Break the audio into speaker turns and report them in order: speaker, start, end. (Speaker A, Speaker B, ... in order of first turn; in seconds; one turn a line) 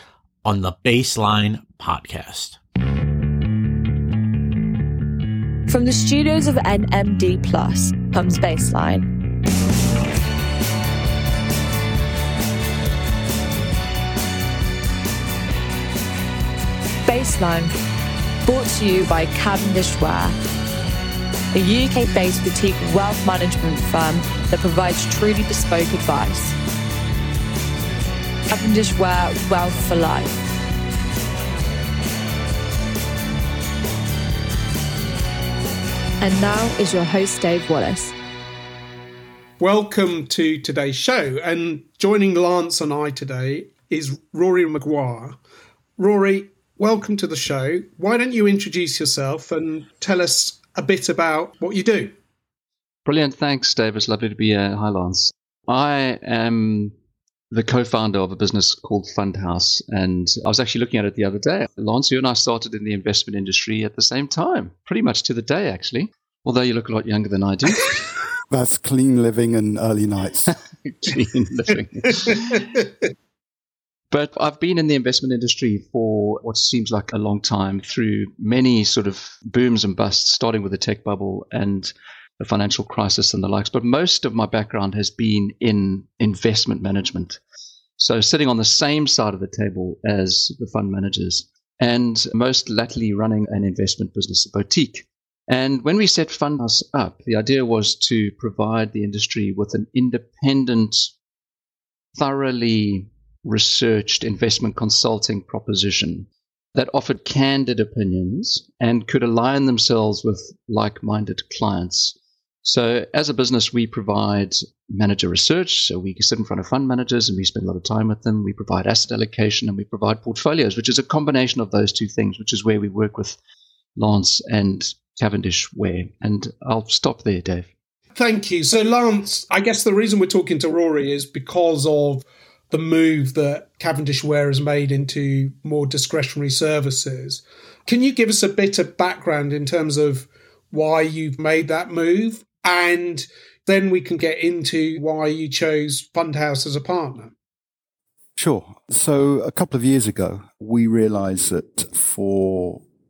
Speaker A: 0.4-2.6
Speaker B: 5.7-9.1
Speaker B: 17.1-17.7
Speaker B: 18.4-20.3
Speaker B: 21.5-26.5
Speaker B: 28.5-30.4
Speaker B: 36.2-38.1
Speaker C: 39.6-45.4
Speaker C: 46.0-52.1
Speaker D: 53.0-56.9
Speaker D: 57.5-68.0
Speaker E: 68.5-70.5
Speaker D: 70.5-72.6
Speaker D: 74.1-87.4
Speaker D: 88.0-101.1
Speaker D: 102.1-123.4
Speaker D: 124.0-127.7
Speaker C: 128.1-147.3
Speaker E: 148.3-152.8